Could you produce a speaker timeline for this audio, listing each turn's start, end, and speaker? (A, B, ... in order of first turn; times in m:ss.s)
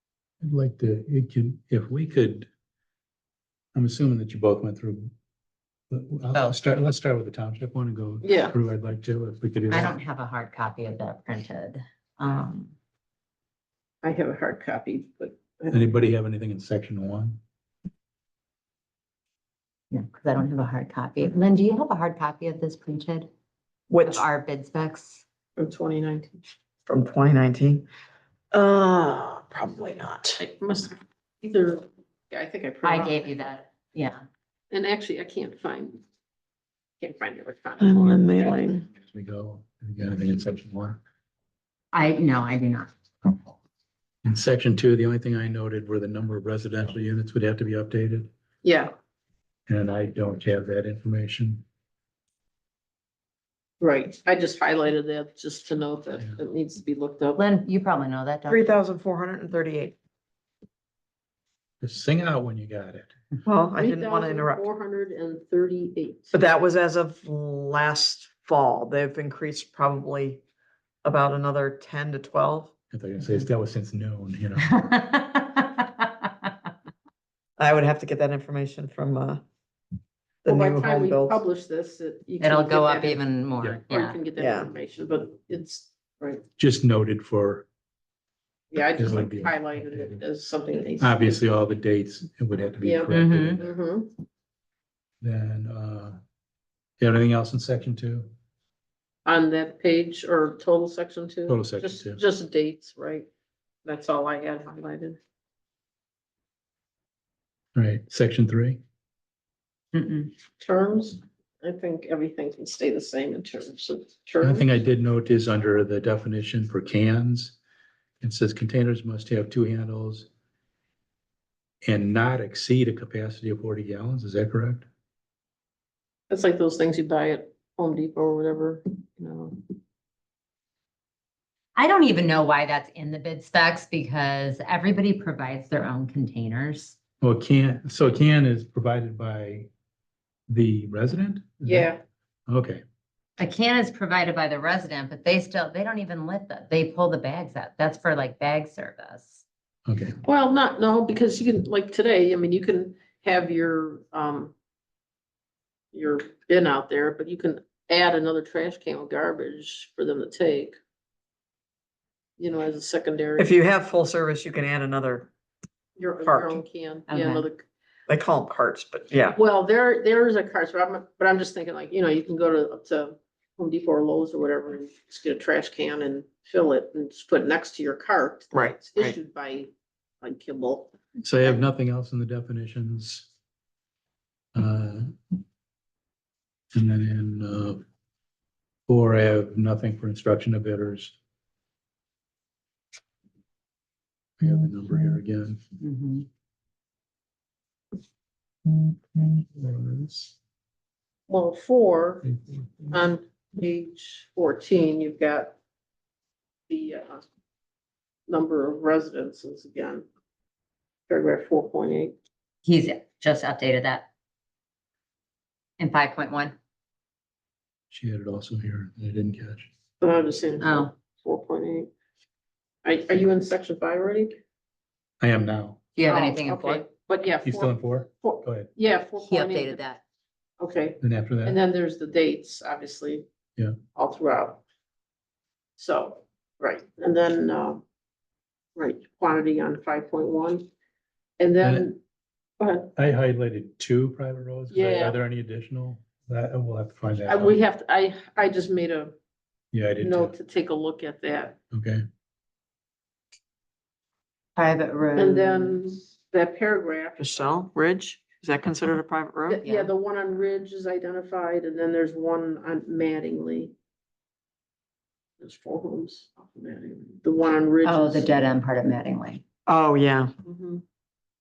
0:00.4-0:02.5 A
0:03.8-0:05.1 A
0:05.9-0:10.0 A
0:06.3-0:06.6 B
0:08.2-0:08.6 C
0:09.7-0:12.8 B
0:14.0-0:16.0 C
0:15.7-0:17.4 A
0:19.9-0:23.3 B
0:23.9-0:24.2 D
0:24.0-0:25.2 B
0:25.6-0:26.4 C
0:26.9-0:27.9 D
0:28.5-0:30.4 D
0:30.4-0:33.3 C
0:32.8-0:34.2 B
0:34.7-0:36.0 C
0:37.0-0:38.4 C
0:37.8-0:38.9 D
0:39.0-0:41.0 A
0:41.9-0:43.4 B
0:44.2-0:48.3 A
0:48.6-0:48.9 C
0:49.7-0:51.6 A
0:53.8-0:57.4 C
0:57.4-0:58.8 B
0:58.5-1:00.0 D
1:01.8-1:03.2 A
1:03.4-1:04.6 D
1:03.8-1:06.3 C
1:06.3-1:10.4 D
1:11.0-1:12.7 D
1:12.9-1:14.7 A
1:14.6-1:16.5 B
1:17.6-1:19.4 D
1:20.4-1:21.4 D
1:20.5-1:23.2 C
1:22.4-1:24.2 B
1:23.9-1:26.4 C
1:24.4-1:24.7 D
1:26.6-1:27.7 A
1:28.7-1:31.3 C
1:29.0-1:30.2 A
1:31.0-1:33.8 A
1:32.8-1:34.1 C
1:33.1-1:33.6 B
1:35.2-1:36.2 A
1:37.0-1:38.3 A
1:39.3-1:43.3 C
1:41.5-1:42.2 A
1:43.8-1:45.2 C
1:47.8-1:48.8 A
1:49.9-1:50.3 B
1:50.6-1:54.6 C
1:54.4-1:57.6 A
1:58.2-2:00.3 A
2:01.8-2:04.9 A
2:06.3-2:09.6 C
2:11.8-2:17.0 B
2:17.2-2:19.7 A
2:20.5-2:21.9 A
2:21.6-2:22.0 C
2:22.5-2:22.8 A
2:23.4-2:29.4 B
2:29.9-2:30.2 A
2:30.3-2:34.5 C
2:35.9-2:40.8 C
2:42.4-2:43.5 C
2:43.4-2:45.3 D
2:46.0-2:47.7 C
2:46.2-2:46.6 D
2:47.1-2:47.5 B
2:48.1-2:49.4 D
2:49.3-2:59.7 C
2:58.5-2:59.2 D
3:00.2-3:01.6 C
3:01.2-3:03.3 A
3:04.6-3:05.4 A
3:06.7-3:07.8 A
3:08.9-3:11.2 A
3:14.4-3:15.6 A
3:15.8-3:16.3 B
3:19.2-3:20.3 A
3:21.3-3:22.3 C
3:22.3-3:22.9 A
3:22.9-3:25.6 C
3:26.7-3:27.2 C
3:28.3-3:30.1 C
3:31.1-3:32.2 C
3:32.6-3:34.1 B
3:35.8-3:36.6 B
3:37.9-3:39.7 A
3:40.0-3:41.9 C
3:40.6-3:40.9 B
3:42.8-3:44.4 C
3:45.2-3:45.8 A
3:46.0-3:46.8 B
3:46.1-3:49.8 C
3:47.4-3:48.7 A
3:49.2-3:50.0 B
3:50.6-3:53.3 C
3:51.0-3:51.6 A
3:53.9-3:54.6 C
3:55.8-3:57.8 C
3:58.8-4:00.7 C
4:01.4-4:02.0 C
4:01.6-4:01.9 A
4:02.6-4:02.9 C
4:03.0-4:07.6 A
4:04.7-4:05.1 C
4:07.3-4:09.1 C
4:09.7-4:10.3 A
4:10.0-4:11.6 C
4:11.7-4:12.0 A
4:14.6-4:15.8 B
4:15.2-4:17.3 C
4:17.2-4:19.6 D
4:19.5-4:23.7 C
4:19.6-4:19.9 B
4:25.4-4:28.3 C
4:27.8-4:29.4 B
4:29.7-4:30.3 D
4:30.4-4:30.8 C